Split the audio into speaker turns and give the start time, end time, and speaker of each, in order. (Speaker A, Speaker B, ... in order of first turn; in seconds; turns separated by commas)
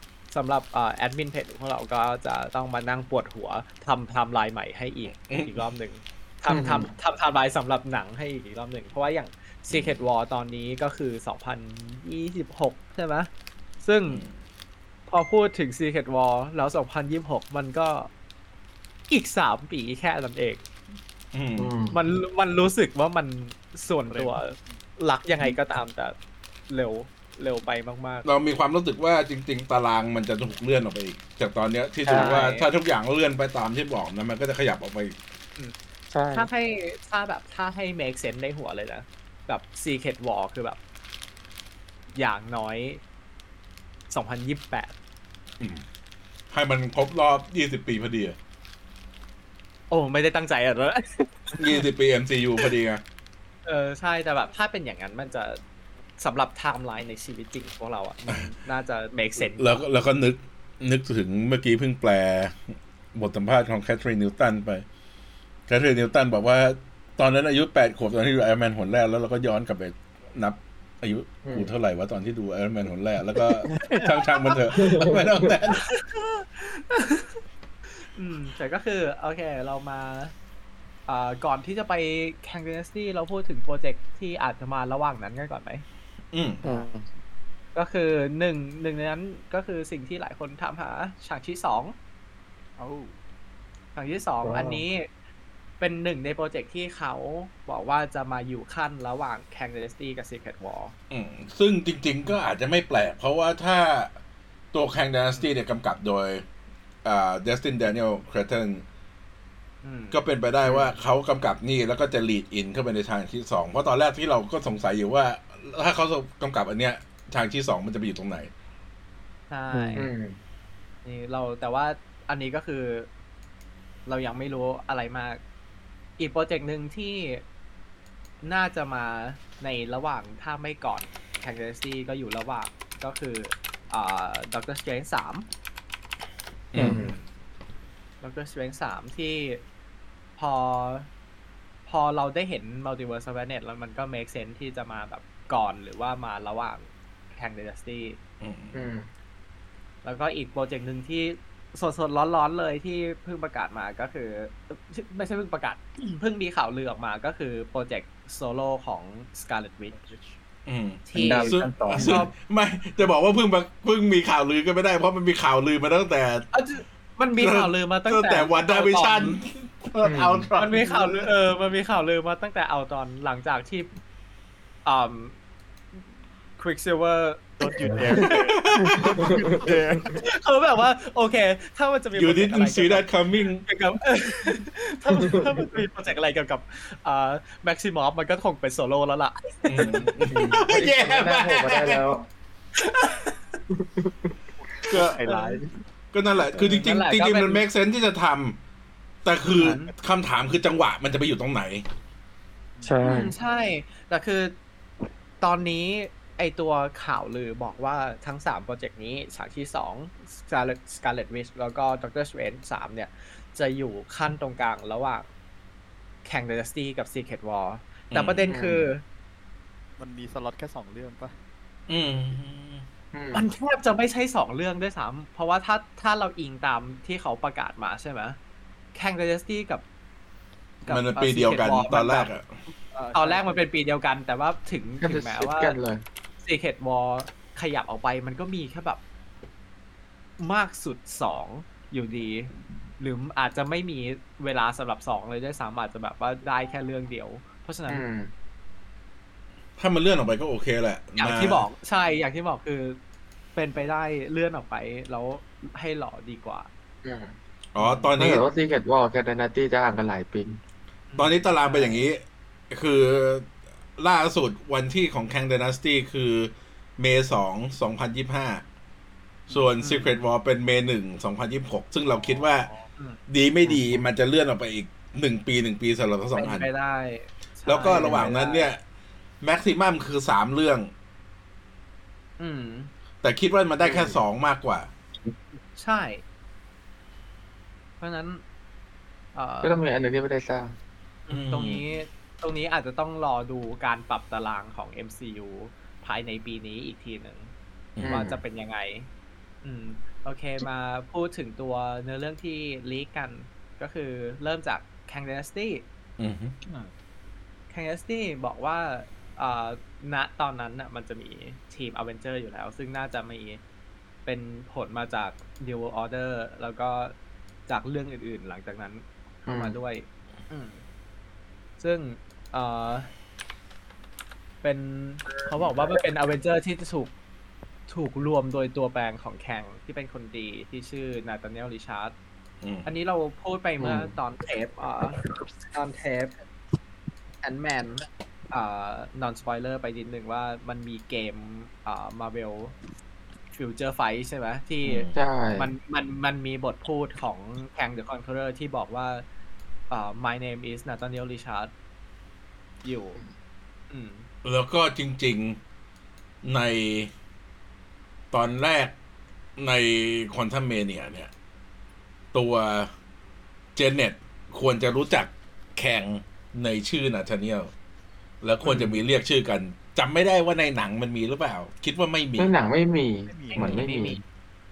Speaker A: 0.3-13.3, Speaker B: 5.3-5.6, Speaker C: 6.5-6.9, Speaker B: 9.7-10.0, Speaker A: 13.8-14.2, Speaker A: 15.1-18.1, Speaker A: 19.1-20.6, Speaker B: 21.3-21.7, Speaker C: 21.6-22.0, Speaker A: 21.9-26.1, Speaker D: 24.1-24.4, Speaker A: 26.7-28.2, Speaker B: 28.2-35.2, Speaker E: 32.0-32.4, Speaker A: 32.1-32.7, Speaker E: 36.1-36.5, Speaker A: 36.3-40.8, Speaker A: 42.1-43.0, Speaker A: 44.1-44.9, Speaker B: 46.5-48.4, Speaker A: 49.9-51.8, Speaker B: 51.5-53.0, Speaker A: 53.6-55.6, Speaker A: 56.2-59.8, Speaker B: 59.4-62.6, Speaker B: 63.1-64.8, Speaker B: 65.7-75.8, Speaker C: 71.4-71.7, Speaker C: 74.7-75.5, Speaker A: 75.7-77.4, Speaker A: 78.1-80.3, Speaker A: 81.1-85.8, Speaker B: 86.3-86.7, Speaker E: 86.6-87.0, Speaker A: 87.7-91.9, Speaker D: 92.8-93.1, Speaker A: 93.9-95.1, Speaker E: 94.4-94.8, Speaker A: 95.8-100.9, Speaker B: 101.1-104.1, Speaker B: 104.7-106.4, Speaker B: 107.0-108.8, Speaker A: 109.8-110.2, Speaker B: 110.1-118.5, Speaker C: 110.6-110.9, Speaker A: 119.5-120.1, Speaker E: 119.7-120.0, Speaker C: 120.0-120.4, Speaker A: 121.0-123.1, Speaker A: 124.1-125.4, Speaker A: 126.2-127.4, Speaker A: 128.4-135.5, Speaker B: 136.7-137.0, Speaker C: 136.8-137.1, Speaker A: 136.8-137.2, Speaker A: 138.2-139.6, Speaker A: 140.4-141.1, Speaker A: 141.8-148.2, Speaker B: 148.4-148.8, Speaker C: 148.7-149.1, Speaker A: 150.0-160.2, Speaker B: 160.7-166.5, Speaker A: 161.1-162.3, Speaker C: 161.2-162.2, Speaker A: 166.5-169.4, Speaker B: 167.3-171.1, Speaker C: 170.0-170.5, Speaker A: 170.6-173.9, Speaker A: 174.8-175.3, Speaker A: 176.6-177.5, Speaker D: 177.6-180.2, Speaker B: 178.2-179.1, Speaker C: 179.2-179.6, Speaker A: 180.2-183.1, Speaker B: 182.1-183.6, Speaker A: 183.6-190.1, Speaker C: 185.2-185.6, Speaker B: 189.7-192.0, Speaker C: 190.3-192.3, Speaker A: 192.8-193.6, Speaker C: 193.7-194.3, Speaker D: 194.6-195.8, Speaker B: 194.9-195.2, Speaker A: 195.1-195.6, Speaker B: 196.1-198.6, Speaker A: 196.5-197.6, Speaker B: 199.2-201.8, Speaker A: 199.4-199.9, Speaker D: 202.8-203.0, Speaker E: 202.8-203.2, Speaker C: 203.0-203.3, Speaker A: 203.0-204.5, Speaker A: 205.4-215.3, Speaker A: 216.2-219.0, Speaker B: 218.1-218.5, Speaker C: 218.5-218.8, Speaker D: 220.0-221.3, Speaker B: 221.9-222.8, Speaker C: 223.1-223.4, Speaker A: 223.3-228.4, Speaker A: 228.9-229.8, Speaker A: 230.8-232.3, Speaker B: 230.9-232.5, Speaker D: 232.9-233.6, Speaker A: 233.1-235.8, Speaker C: 235.0-236.0, Speaker A: 236.4-239.0, Speaker A: 240.4-248.0, Speaker C: 247.9-248.3, Speaker B: 249.8-251.7, Speaker A: 251.2-253.0, Speaker A: 253.5-256.7, Speaker C: 257.0-257.4, Speaker B: 257.7-258.4, Speaker A: 257.8-258.1, Speaker C: 258.2-260.6, Speaker A: 261.1-262.0, Speaker B: 261.2-268.6, Speaker A: 269.5-270.2, Speaker B: 269.5-272.7, Speaker B: 273.3-276.7, Speaker C: 273.6-274.0, Speaker A: 276.4-278.7, Speaker B: 277.6-278.8, Speaker C: 277.8-278.3, Speaker B: 279.4-280.9, Speaker A: 282.4-282.9, Speaker B: 283.2-284.9, Speaker C: 283.8-284.2, Speaker A: 285.8-286.2, Speaker A: 288.0-288.4, Speaker A: 289.3-289.8, Speaker C: 289.6-290.8, Speaker A: 291.3-297.5, Speaker B: 291.3-291.8, Speaker C: 298.0-298.4, Speaker A: 298.0-299.1, Speaker A: 299.6-305.8, Speaker B: 306.2-306.5, Speaker A: 307.7-313.6, Speaker A: 314.2-317.1, Speaker A: 317.7-320.8, Speaker C: 319.5-319.8, Speaker A: 321.8-323.1, Speaker A: 324.6-327.1, Speaker A: 327.9-332.1, Speaker B: 332.6-332.9, Speaker A: 332.8-336.3, Speaker C: 333.8-334.1, Speaker A: 337.4-342.7, Speaker A: 343.5-349.2, Speaker B: 344.8-345.2, Speaker C: 345.1-345.7, Speaker A: 349.9-351.7, Speaker A: 352.8-353.2, Speaker A: 353.9-354.3, Speaker B: 354.4-355.6, Speaker B: 356.4-357.1, Speaker B: 358.3-358.9, Speaker B: 359.6-361.3, Speaker B: 362.3-362.9, Speaker B: 363.8-367.7, Speaker B: 368.4-372.5, Speaker C: 368.6-369.0, Speaker C: 372.4-374.2, Speaker D: 373.3-373.8, Speaker A: 373.5-374.2